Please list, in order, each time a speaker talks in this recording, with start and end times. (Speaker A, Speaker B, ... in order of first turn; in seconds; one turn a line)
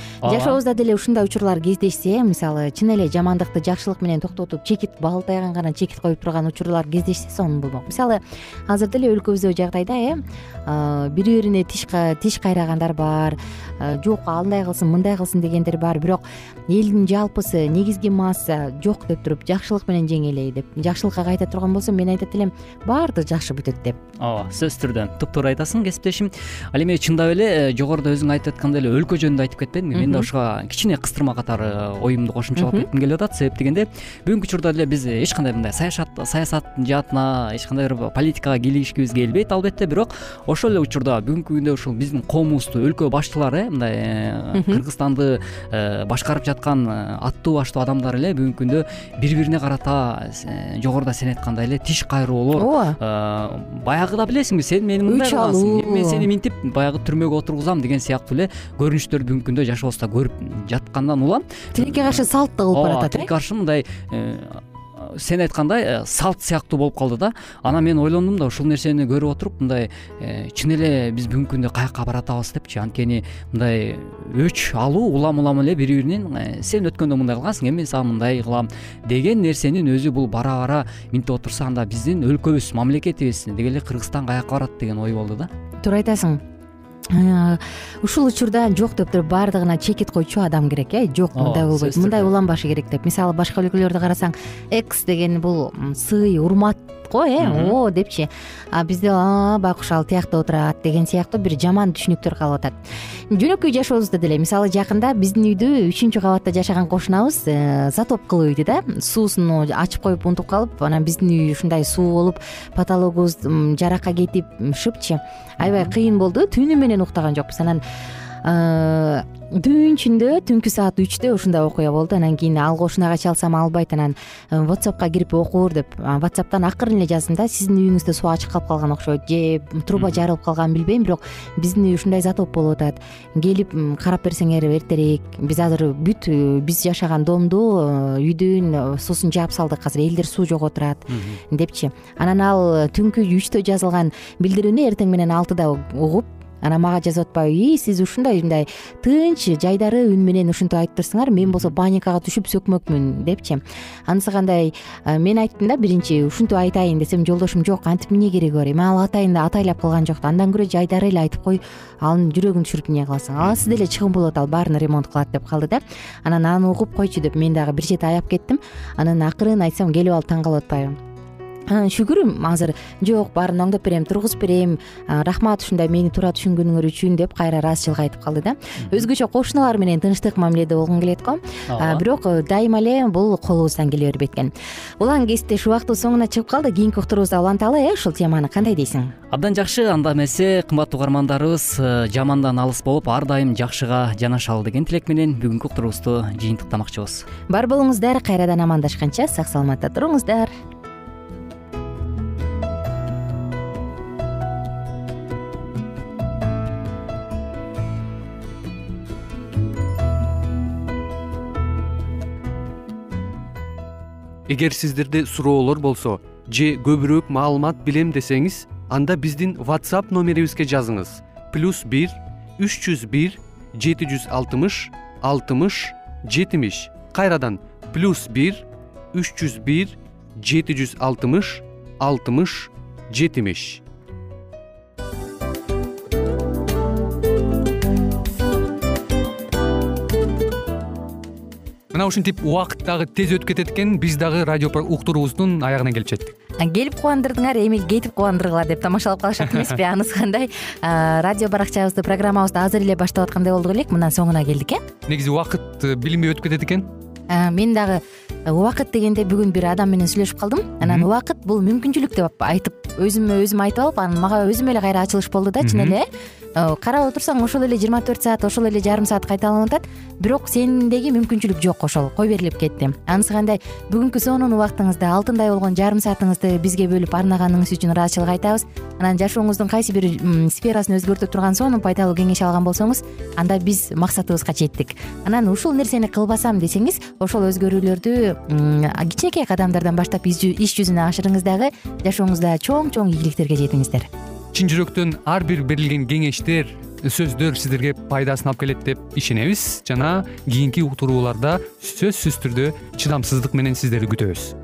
Speaker A: 0.2-0.6
Speaker B: 0.2-24.0
Speaker A: 24.2-85.5
Speaker B: 29.9-30.3
Speaker B: 32.6-32.9
Speaker B: 44.5-44.8
Speaker B: 52.6-53.0
Speaker B: 55.0-56.3
Speaker B: 61.7-63.3
Speaker B: 85.8-86.4
Speaker B: 87.1-102.8
Speaker A: 91.3-92.3
Speaker A: 97.4-97.8
Speaker B: 103.3-117.8
Speaker B: 118.4-170.9
Speaker A: 129.9-130.2
Speaker A: 141.1-141.4
Speaker A: 151.4-151.7
Speaker B: 171.7-189.1
Speaker A: 181.7-182.0
Speaker A: 189.3-197.3
Speaker B: 197.5-200.5
Speaker C: 214.5-233.8
Speaker C: 241.9-246.3
Speaker B: 246.6-254.8
Speaker C: 255.1-256.9
Speaker B: 257.3-294.1
Speaker C: 265.6-266.0
Speaker C: 294.5-304.5